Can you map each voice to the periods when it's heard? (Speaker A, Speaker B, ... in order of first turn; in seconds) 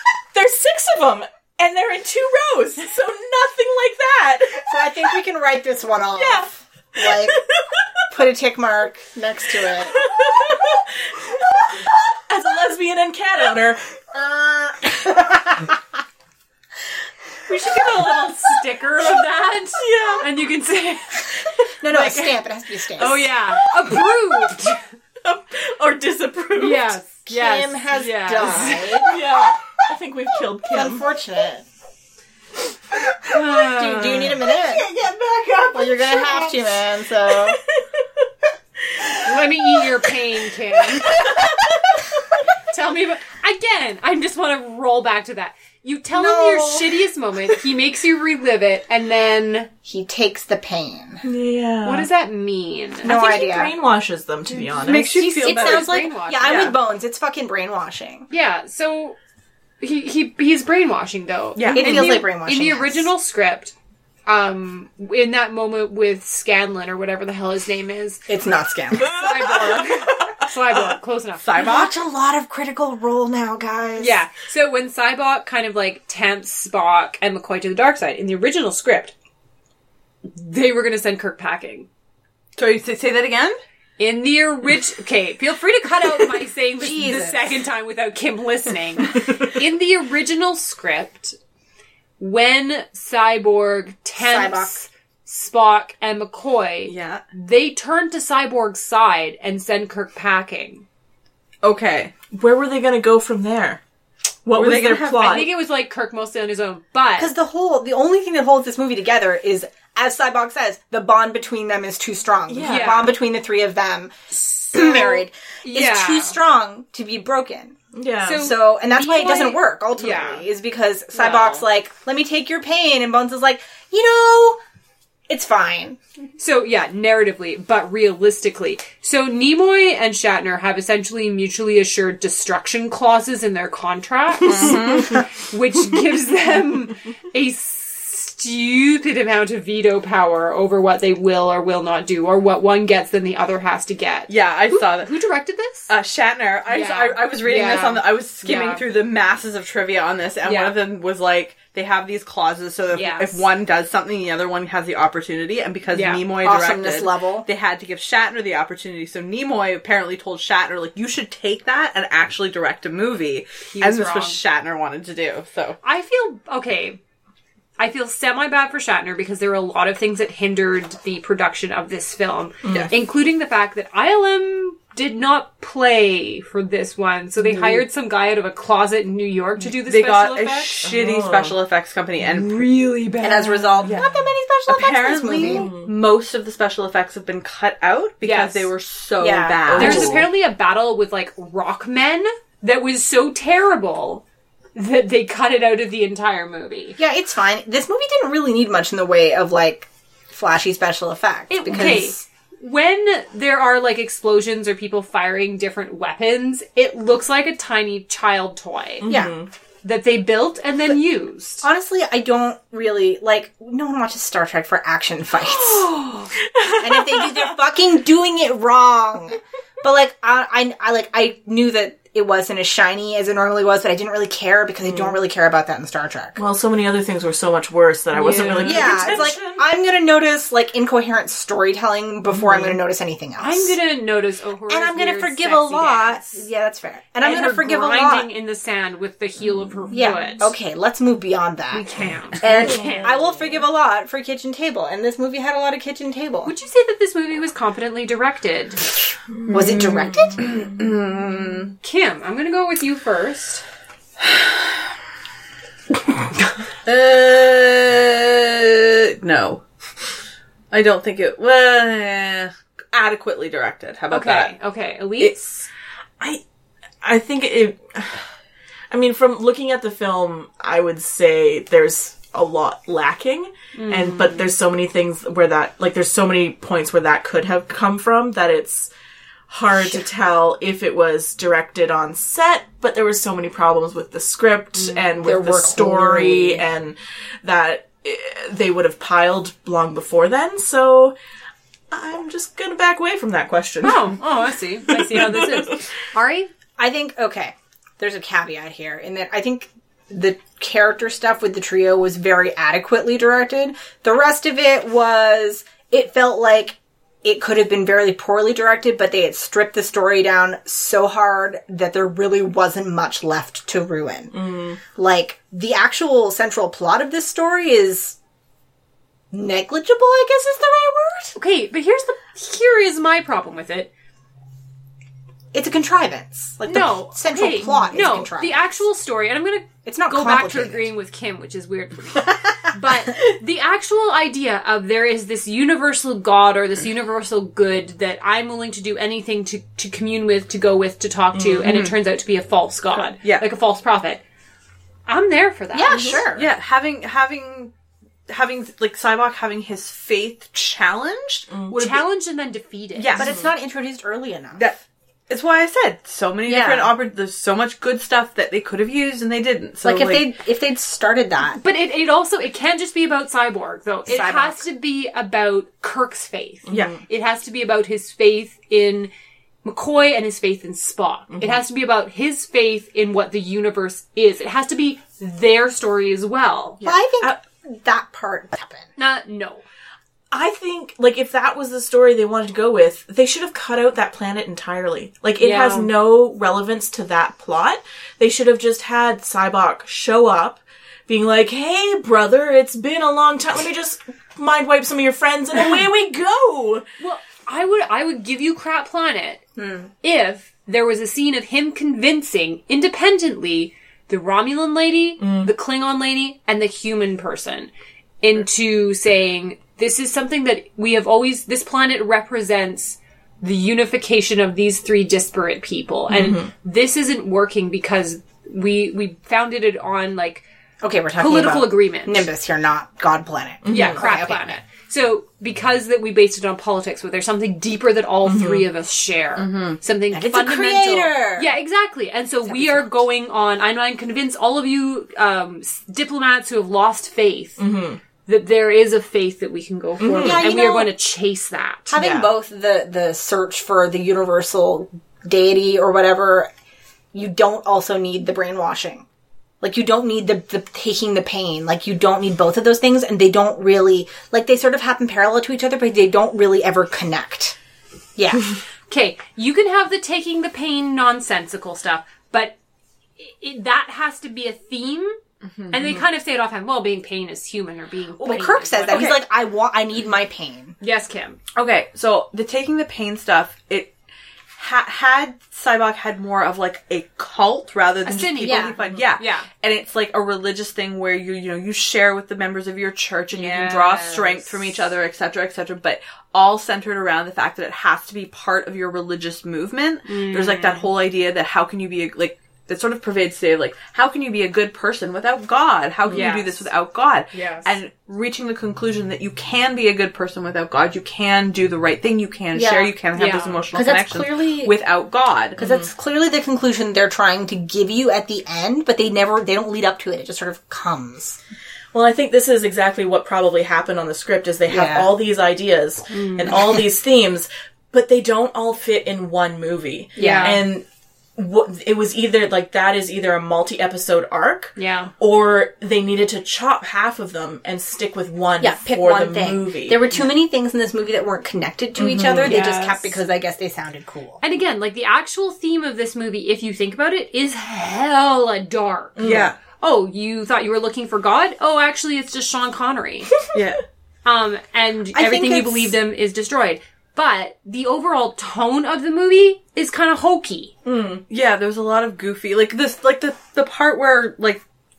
Speaker A: 0.3-5.1, 6.2-7.8, 9.6-14.2, 19.8-20.3, 23.8-24.1, 25.2-27.0, 29.0-31.0, 33.5-38.3, 38.9-39.5, 40.9-42.4, 51.2-52.1, 53.0-55.2, 68.9-70.4, 102.3-103.8, 104.5-105.5, 112.5-113.1, 117.9-118.5, 172.6-172.9, 180.8-181.6, 185.4-185.9, 189.7-190.3, 201.7-202.0, 209.0-209.5, 215.4-217.6, 224.8-225.2, 226.4-229.7, 232.3-232.8, 242.7-243.1, 249.4-250.4, 267.0-268.3, 268.9-278.9, 279.5-291.1, 291.9-294.2, 294.9-295.8, 314.3-314.8, 341.3-341.9, 345.9-346.2, 351.5-351.8, 366.7-367.0, 371.3-371.6, 380.3-396.9, 405.2-405.5, 416.1-416.5, 423.6-424.0, 428.2-428.6, 437.6-438.0, 440.0-440.5, 441.9-442.3, 505.6-505.9, 511.9-520.9, 521.4-530.1, 532.0-532.6, 539.2-539.5, 550.9-551.2
Speaker B: 4.6-7.4, 8.1-10.1, 14.2-15.8, 21.8-23.3, 27.3-29.5, 30.7-31.6, 33.6-34.9, 35.7-37.6, 46.1-47.0, 49.9-51.2, 53.0-53.8, 55.2-58.3, 61.7-63.1, 68.3-69.1, 71.6-74.2, 86.8-87.5, 94.2-94.8, 107.2-117.8, 118.3-124.6, 125.3-126.0, 156.4-157.5, 183.2-185.7, 189.2-190.0, 197.0-202.2, 209.1-209.3, 211.6-216.0, 216.8-226.4, 228.6-233.8, 234.7-238.3, 239.9-241.8, 242.4-246.5, 249.5-250.6, 279.8-280.0, 285.1-286.6, 296.8-314.4, 314.9-318.2, 319.3-321.4, 325.5-328.7, 329.9-330.9, 345.7-346.5, 353.1-354.6, 356.5-356.9, 359.8-361.6, 364.1-364.6, 376.8-378.9, 399.6-399.9, 420.8-424.6, 430.1-431.5, 432.4-433.0, 440.1-440.9, 441.9-446.5, 447.1-449.1, 449.6-457.6, 458.2-458.6, 468.2-470.8, 478.4-478.8, 502.5-502.9, 503.7-504.7, 505.6-511.4, 514.7-515.1, 520.2-520.6, 528.6-534.4, 545.1-545.9
Speaker C: 17.5-24.8, 26.6-29.1, 33.3-34.4, 39.2-41.3, 42.6-49.7, 51.8-53.1, 55.1-56.8, 58.3-59.2, 59.8-63.7, 64.3-68.3, 69.0-71.9, 74.0-79.1, 80.3-81.9, 84.0-91.4, 92.2-100.8, 105.2-107.3, 112.6-113.1, 114.7-116.4, 118.2-120.5, 121.1-121.7, 126.4-145.9, 146.7-148.8, 150.4-150.8, 152.9-153.4, 155.9-156.3, 163.7-164.4, 165.8-167.0, 167.8-180.7, 182.3-184.0, 188.2-188.7, 189.8-194.2, 194.8-197.0, 201.5-209.1, 209.8-211.7, 228.1-229.2, 233.4-236.4, 237.2-240.5, 241.7-243.3, 246.5-248.9, 251.8-253.6, 264.1-265.7, 273.8-274.5, 293.8-296.5, 321.4-323.9, 326.6-344.2, 345.1-346.2, 351.7-353.3, 361.5-369.1, 369.6-376.8, 379.0-379.6, 385.4-385.9, 397.0-399.4, 400.0-407.7, 408.2-420.4, 421.2-422.3, 423.7-437.6, 438.3-441.9, 458.9-462.6, 463.2-465.2, 465.7-469.2, 470.8-471.4, 478.1-479.5, 483.3-484.5, 490.1-490.9, 496.1-496.7, 497.3-497.7, 503.1-503.7, 516.1-516.5, 520.2-520.6, 524.8-525.1, 532.4-533.2, 534.4-539.2, 539.8-543.3, 544.2-550.7
Speaker D: 54.5-56.8, 61.6-62.1, 71.4-71.9, 82.6-83.6, 96.8-97.2, 101.6-102.1, 104.5-105.5, 134.4-135.2, 144.3-145.1, 145.9-165.8, 177.4-177.8, 179.7-182.7, 183.8-190.2, 249.5-251.7, 256.8-259.6, 260.7-264.6, 346.3-347.7, 348.3-352.1, 353.0-353.4, 354.6-360.3, 376.8-377.3, 429.4-429.8, 465.5-465.9, 468.9-469.2, 471.6-473.9, 474.6-505.6, 539.2-539.5, 543.5-543.8, 551.3-554.6